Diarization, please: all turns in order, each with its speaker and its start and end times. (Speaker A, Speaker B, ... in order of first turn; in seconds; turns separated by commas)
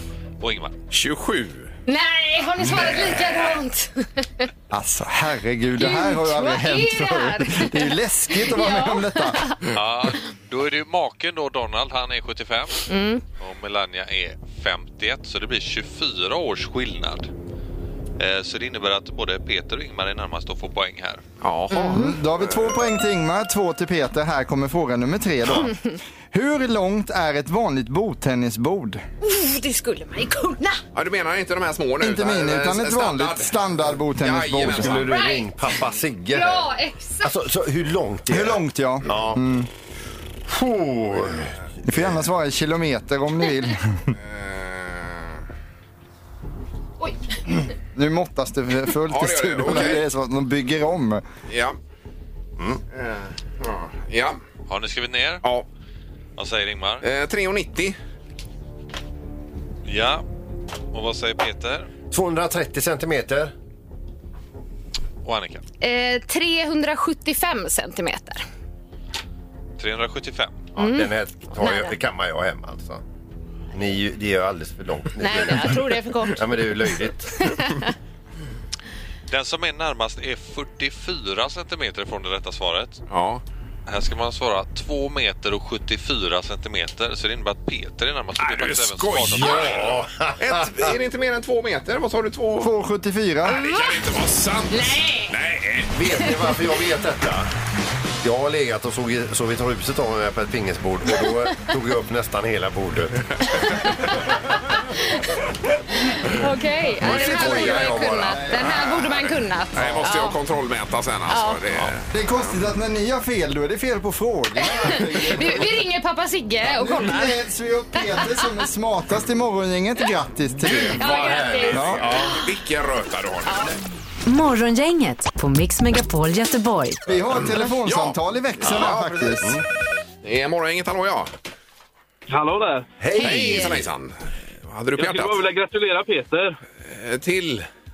Speaker A: 0.4-0.8, Speaker B: 0.9-1.7, Speaker C: 1.9-4.5, Speaker D: 4.7-9.4, Speaker C: 5.8-9.6, Speaker A: 9.7-17.3, Speaker C: 12.9-13.2, Speaker A: 18.2-21.2, Speaker B: 21.4-22.8, Speaker C: 21.7-22.1, Speaker D: 21.9-25.7, Speaker D: 26.3-29.0, Speaker C: 29.2-30.8, Speaker B: 30.9-33.6, Speaker D: 32.0-35.0, Speaker B: 34.2-35.1, Speaker E: 34.7-36.7, Speaker C: 35.0-35.5, Speaker C: 36.3-37.3, Speaker E: 37.2-39.4, Speaker D: 38.3-39.7, Speaker E: 40.5-42.1, Speaker D: 41.9-44.1, Speaker B: 44.2-45.4, Speaker D: 48.0-51.2, Speaker B: 49.1-50.0, Speaker B: 51.5-51.8, Speaker B: 52.9-54.4, Speaker A: 54.7-55.4, Speaker A: 56.4-57.0, Speaker B: 57.0-58.0, Speaker A: 59.9-60.2, Speaker A: 60.9-61.9, Speaker E: 62.1-63.5, Speaker A: 65.2-65.7, Speaker C: 65.8-68.4, Speaker A: 69.8-70.7, Speaker E: 70.8-73.0, Speaker C: 70.8-71.9, Speaker E: 73.7-77.5, Speaker C: 75.2-77.9, Speaker A: 79.3-83.0, Speaker B: 83.1-83.4, Speaker A: 83.9-90.0, Speaker B: 88.4-92.7, Speaker E: 89.3-90.9, Speaker D: 92.6-93.6, Speaker B: 93.5-95.9, Speaker C: 93.6-93.8, Speaker C: 94.7-95.3, Speaker E: 95.9-97.5, Speaker E: 98.2-103.3, Speaker C: 103.7-104.1, Speaker C: 104.9-105.2, Speaker C: 106.1-110.4, Speaker E: 107.0-108.5, Speaker B: 107.0-108.0, Speaker D: 108.3-108.8, Speaker B: 108.6-112.6, Speaker C: 111.3-111.6, Speaker D: 112.1-115.8, Speaker C: 114.6-117.4, Speaker D: 116.6-121.0, Speaker C: 118.0-118.5, Speaker B: 120.7-123.7, Speaker E: 120.8-122.4, Speaker C: 120.9-122.4, Speaker D: 121.7-122.1, Speaker F: 124.3-127.0, Speaker D: 127.1-129.6, Speaker B: 127.5-129.4, Speaker B: 130.2-131.3, Speaker G: 132.3-132.9, Speaker E: 133.0-133.9, Speaker C: 133.2-133.8, Speaker B: 133.2-135.4, Speaker G: 135.0-136.6, Speaker B: 136.8-137.7